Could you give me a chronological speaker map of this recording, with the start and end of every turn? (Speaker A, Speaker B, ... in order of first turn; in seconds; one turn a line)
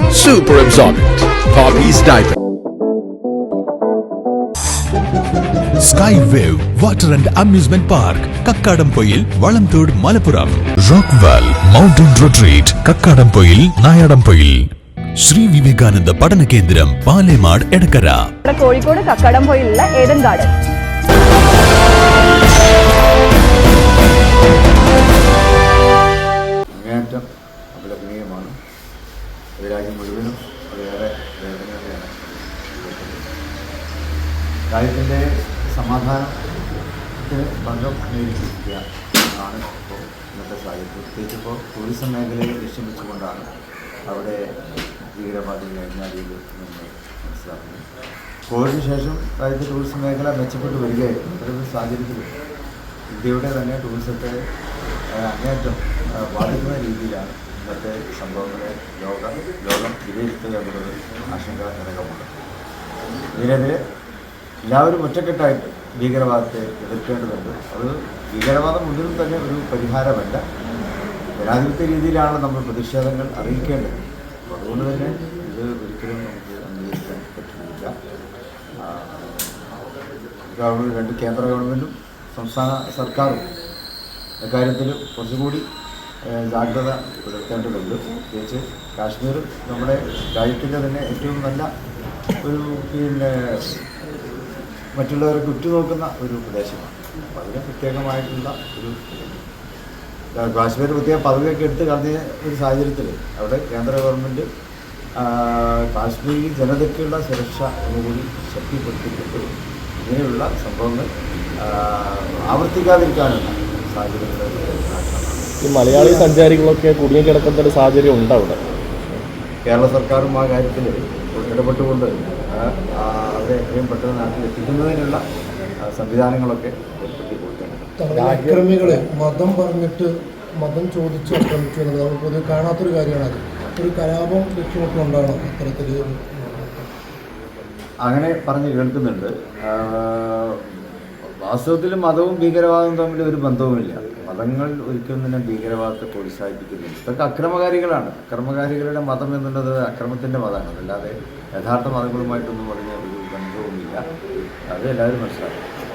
Speaker A: 0.1-2.3
Speaker A: 5.8-14.6
Speaker A: 15.2-18.3
Speaker B: 18.4-20.5
Speaker C: 26.7-28.5
Speaker C: 29.6-33.2
Speaker C: 34.7-36.4
Speaker C: 37.2-38.8
Speaker C: 39.4-43.5
Speaker C: 44.1-44.5
Speaker C: 45.1-47.8
Speaker C: 48.5-52.3
Speaker C: 53.1-54.4
Speaker C: 55.1-62.3
Speaker C: 63.3-63.8
Speaker C: 64.7-70.4
Speaker C: 71.4-77.9
Speaker C: 78.8-79.3
Speaker C: 80.5-83.5
Speaker C: 84.4-85.6
Speaker C: 86.2-91.7
Speaker C: 92.4-93.8
Speaker C: 95.0-99.4
Speaker C: 100.4-104.5
Speaker C: 105.2-109.5
Speaker C: 110.0-111.1
Speaker C: 111.6-115.5
Speaker D: 115.6-119.2
Speaker C: 119.7-125.2
Speaker C: 125.8-127.9
Speaker E: 128.0-136.8
Speaker D: 128.1-129.0
Speaker C: 138.0-155.6